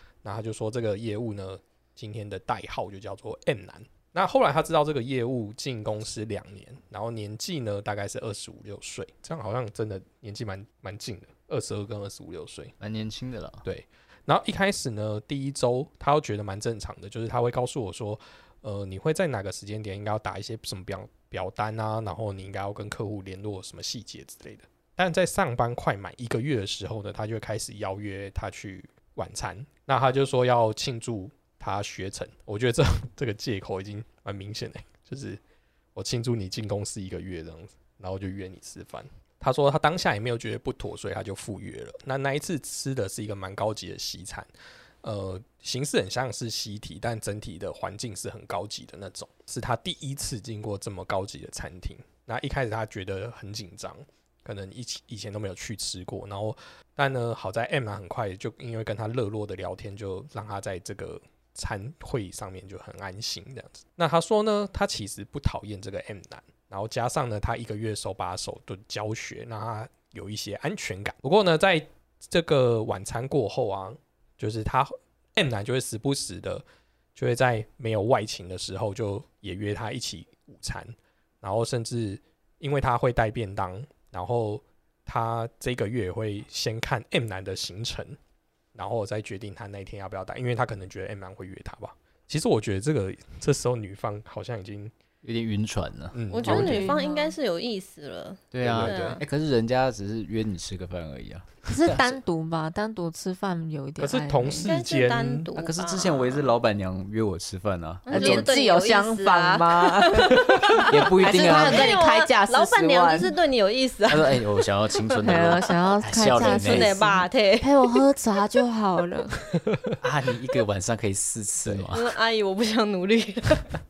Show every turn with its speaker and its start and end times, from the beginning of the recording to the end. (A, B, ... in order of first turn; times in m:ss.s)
0:00.2-0:12.7 A
0:12.8-0:13.6 B
0:13.6-0:35.4 A
0:35.9-0:44.5 A
0:45.0-1:16.6 A
1:17.2-1:28.2 A
1:28.7-1:34.9 A
1:35.2-1:36.2 B
1:36.1-1:37.0 A
1:36.3-1:39.2 C
1:36.4-1:37.3 D
1:38.5-1:42.2 B
1:38.6-1:39.2 A
1:41.6-1:44.7 D
1:44.0-1:45.5 A
1:44.6-1:46.6 C
1:45.6-1:48.5 B
1:48.0-1:55.5 C
1:48.1-1:53.3 D
1:50.9-1:51.9 B
1:54.1-1:56.9 B
1:55.2-1:59.4 D
1:56.3-1:57.9 C
2:00.0-2:02.1 B
2:01.6-2:01.9 A
2:01.9-2:03.7 C